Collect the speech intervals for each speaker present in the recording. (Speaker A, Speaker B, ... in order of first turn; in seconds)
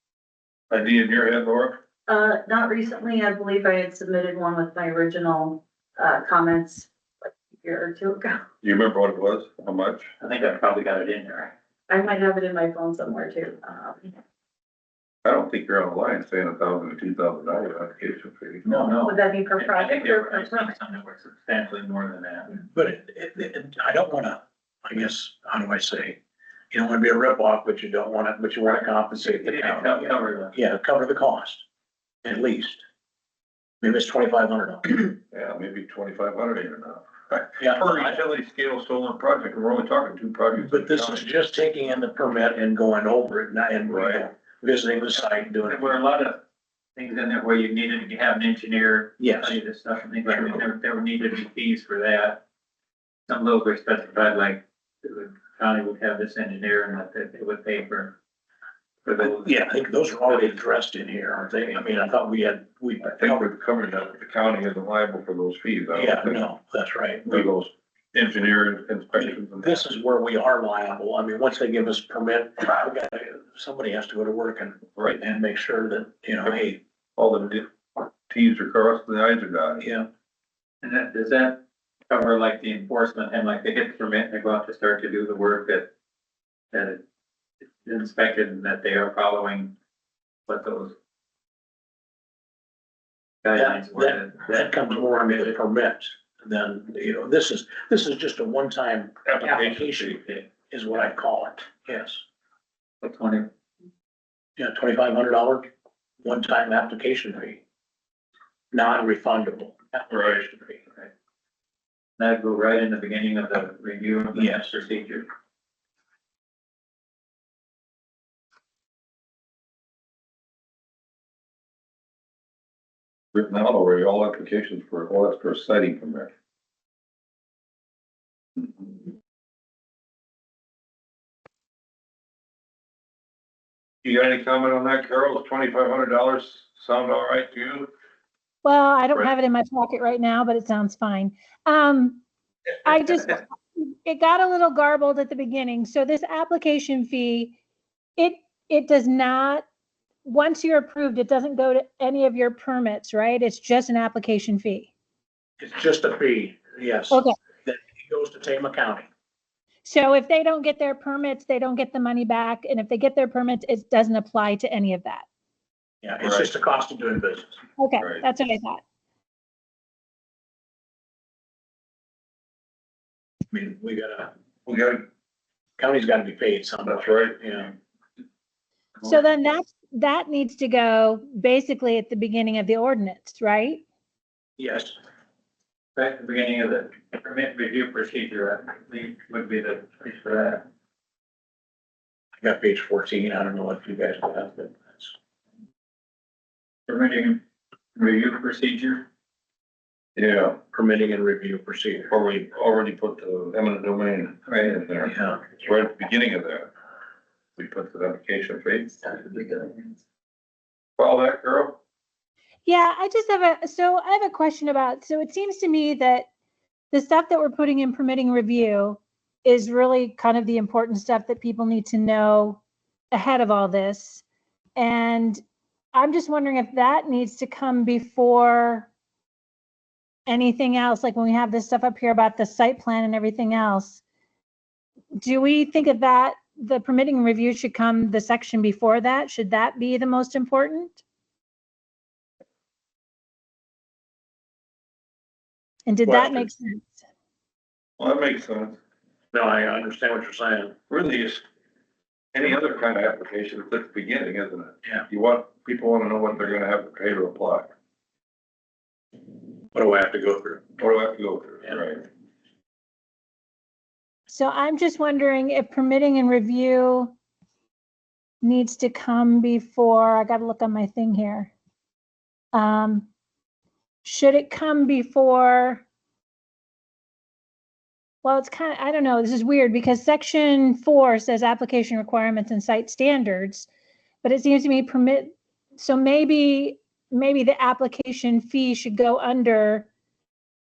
Speaker A: 0.7-1.8, 8.6-10.1, 15.2-18.9, 35.3-41.2, 43.9-44.2, 63.1-66.4, 67.3-69.8, 75.0-75.2, 77.2-79.9, 99.2-100.2, 110.1-110.5, 123.3-126.3, 134.0-137.9, 166.2-166.5, 174.7-175.0, 176.8-177.4, 200.2-200.6, 202.1-206.7, 207.6-209.7, 211.0-211.8, 248.0-248.8, 250.9-251.4, 252.3-257.7, 260.8-262.0
Speaker B: 2.1-8.4, 11.9-14.1, 19.0-20.7
Speaker C: 10.2-11.5, 18.6-22.6, 29.2-30.5, 45.6-46.4, 47.0-52.4, 53.3-58.2, 59.0-59.5, 80.8-85.9, 86.7-87.0, 87.8-89.7, 90.5-91.0, 93.4-95.6, 103.0-103.5, 112.2-115.3, 185.9-190.6, 196.9-197.4, 197.9-199.1
Speaker D: 22.7-26.2, 26.7-31.6, 32.2-32.8, 33.8-35.1, 37.6-38.2, 40.5-45.9, 49.2-49.6, 59.2-63.5, 65.9-67.5, 69.1-76.8, 79.8-80.1, 93.5-102.2, 104.6-105.7, 106.2-107.6, 108.7-110.8, 114.3-114.7, 155.6-159.1, 166.0-167.6, 173.5-174.3, 175.8-177.7, 184.6-184.9, 192.4-195.1, 200.7-202.1, 205.1-205.4, 246.0-246.5, 249.3-250.8, 259.7-260.6
Speaker E: 138.6-142.2, 142.8-147.6, 148.2-149.7, 150.2-154.9, 157.1-157.3, 159.8-165.2, 167.8-168.8, 179.0-183.8, 212.7-216.3, 216.9-222.6, 223.1-224.2, 224.8-225.4, 225.9-228.9, 230.3-234.0, 235.2-241.0, 245.9-247.0, 264.3-267.1, 268.4-271.5, 272.5-273.1, 274.0-275.8, 278.2-283.7, 284.2-289.9